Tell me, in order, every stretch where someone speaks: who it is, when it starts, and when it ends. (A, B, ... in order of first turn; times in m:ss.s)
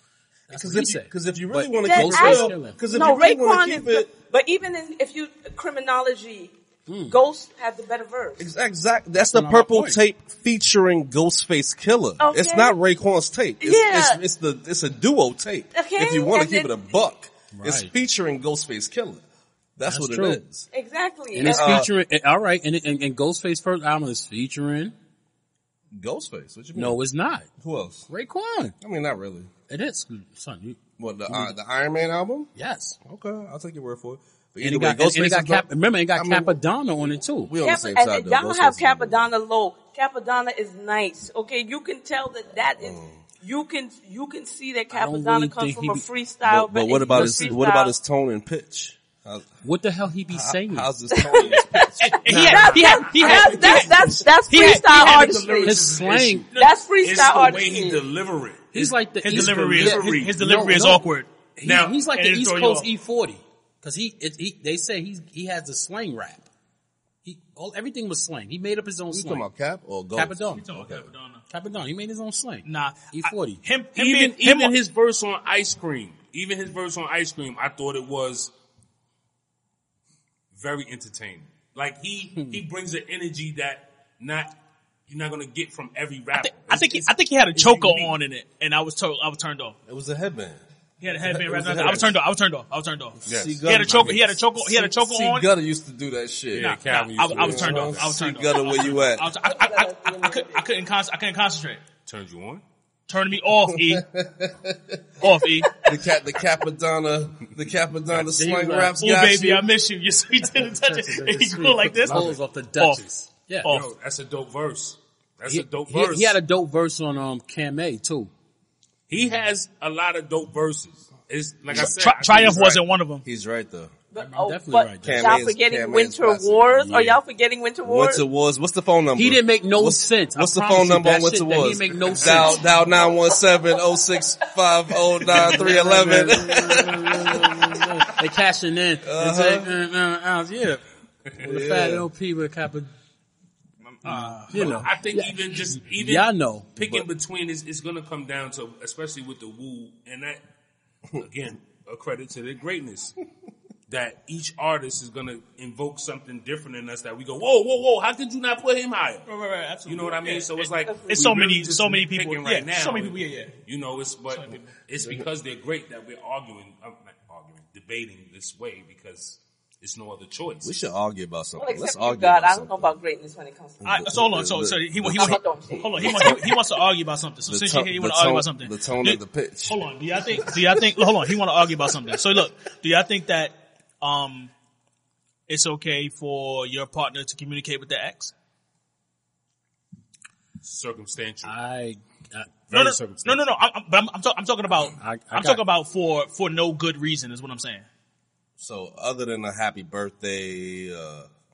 0:00.5-0:02.8 A
0:00.5-0:04.1 B
0:01.8-0:06.5 C
0:06.9-0:07.2 A
0:07.1-0:08.4 C
0:08.4-0:19.2 B
0:09.2-0:10.0 A
0:12.2-0:12.8 C
0:13.6-0:14.2 C
0:15.7-0:16.8 C
0:17.5-0:17.9 A
0:19.8-0:20.7 B
0:19.9-0:20.4 A
0:20.7-0:21.9 C
0:21.3-0:25.0 A
0:21.5-0:21.9 B
0:25.9-0:27.0 B
0:26.7-0:27.5 A
0:27.6-0:28.1 B
0:28.1-0:28.8 A
0:28.8-0:29.5 B
0:29.7-0:31.6 A
0:31.0-0:32.5 B
0:32.6-0:33.0 A
0:33.0-0:39.3 B
0:34.6-0:37.5 A
0:37.6-0:48.0 C
0:42.8-0:43.2 B
0:44.9-0:46.1 A
0:46.4-0:49.5 B
0:47.0-0:47.6 A
0:49.6-0:50.9 A
0:50.3-0:52.8 B
0:51.1-0:55.8 C
0:52.0-0:55.7 D
0:52.3-0:56.5 A
0:53.2-0:54.0 E
0:54.8-0:56.5 E
0:56.5-0:58.0 C
0:57.0-1:00.4 E
0:58.7-1:06.5 A
0:59.2-1:01.3 D
1:01.6-1:02.0 E
1:02.1-1:02.9 D
1:07.2-1:09.5 A
1:09.1-1:11.1 B
1:10.1-1:10.7 A
1:10.6-1:11.4 D
1:11.5-1:13.6 A
1:12.7-1:14.7 D
1:14.0-1:18.5 E
1:20.5-1:24.5 E
1:25.1-1:28.1 E
1:26.4-1:29.8 D
1:29.9-1:32.2 B
1:31.0-1:35.5 D
1:33.2-1:39.3 B
1:33.3-1:34.2 E
1:36.5-1:38.2 E
1:36.6-1:41.8 D
1:39.4-1:40.7 C
1:42.1-1:42.6 E
1:43.1-1:44.0 D
1:43.6-1:49.7 B
1:45.2-1:45.8 D
1:48.1-1:49.0 A
1:49.0-1:53.0 D
1:50.6-1:53.7 A
1:52.1-1:52.4 E
1:53.6-1:56.4 E
1:55.5-1:58.3 A
1:59.1-2:02.8 E
2:01.8-2:03.2 D
2:03.2-2:04.0 B
2:04.1-2:08.2 C
2:04.2-2:05.4 A
2:05.0-2:07.0 B
2:06.8-2:07.2 A
2:07.8-2:17.9 B
2:09.2-2:12.7 A
2:13.1-2:13.8 C
2:15.3-2:20.8 A
2:19.0-2:19.7 B
2:21.4-2:22.9 A
2:21.4-2:22.1 B
2:23.8-2:24.8 D
2:24.0-2:27.0 A
2:24.5-2:30.4 E
2:31.2-2:33.2 E
2:33.9-2:39.3 E
2:39.3-2:43.5 D
2:39.9-2:50.9 E
2:40.9-2:41.3 C
2:44.3-2:44.7 D
2:50.6-2:53.0 B
2:51.6-2:54.0 C
2:53.8-2:56.6 B
2:53.8-3:04.5 D
2:55.1-2:56.3 C
2:57.5-3:01.0 B
3:02.1-3:02.4 B
3:05.5-3:08.3 D
3:10.6-3:11.6 E
3:11.4-3:13.4 A
3:12.7-3:17.9 D
3:14.9-3:15.6 A
3:18.6-3:21.3 B